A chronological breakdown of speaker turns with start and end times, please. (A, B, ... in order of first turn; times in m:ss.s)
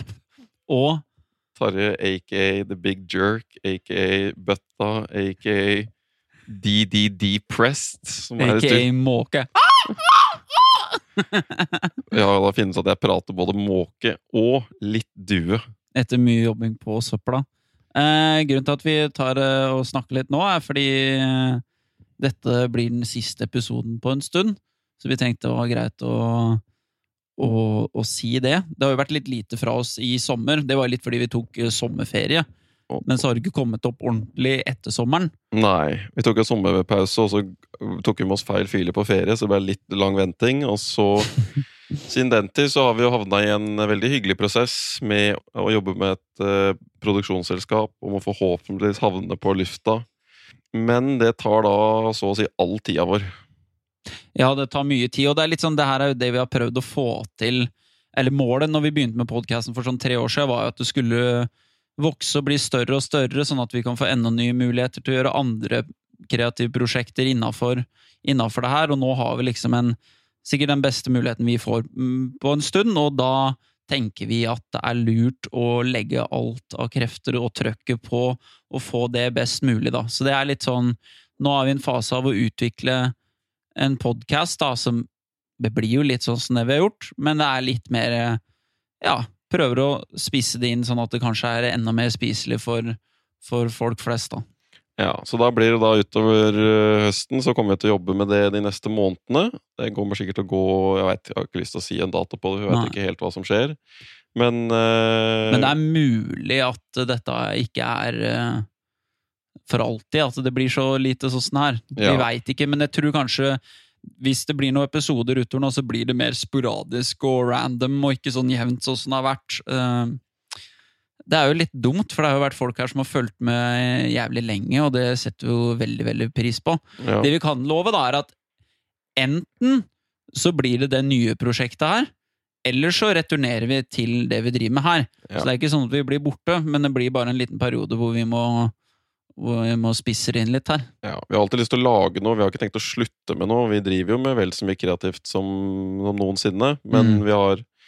0:00.7-0:01.0 A
0:01.6-0:05.9 B
0:06.5-0:08.8 B
0:08.4-0:09.8 A
0:11.2-0:11.9 A
0:12.1-0:15.6 B
0:15.9-0:21.6 A
0:22.2-0:26.6 A
0:27.4-0:32.5 A
0:33.0-0:35.3 A
0:35.5-0:41.4 B
0:42.0-0:50.0 B
0:50.7-0:53.3 B
0:54.3-1:23.2 A
1:23.8-1:25.1 A
1:25.6-1:28.4 A
1:29.0-1:34.4 A
1:35.0-1:43.8 B
1:42.7-1:43.0 A
1:44.3-1:45.7 B
1:45.5-1:48.7 A
1:49.7-1:53.6 A
1:52.0-1:52.3 B
1:54.2-2:00.2 A
2:01.3-2:08.3 A
2:07.0-2:07.3 B
2:09.2-2:12.1 A
2:12.6-2:18.7 A
2:19.4-2:20.9 A
2:21.0-2:27.6 B
2:26.9-2:27.2 A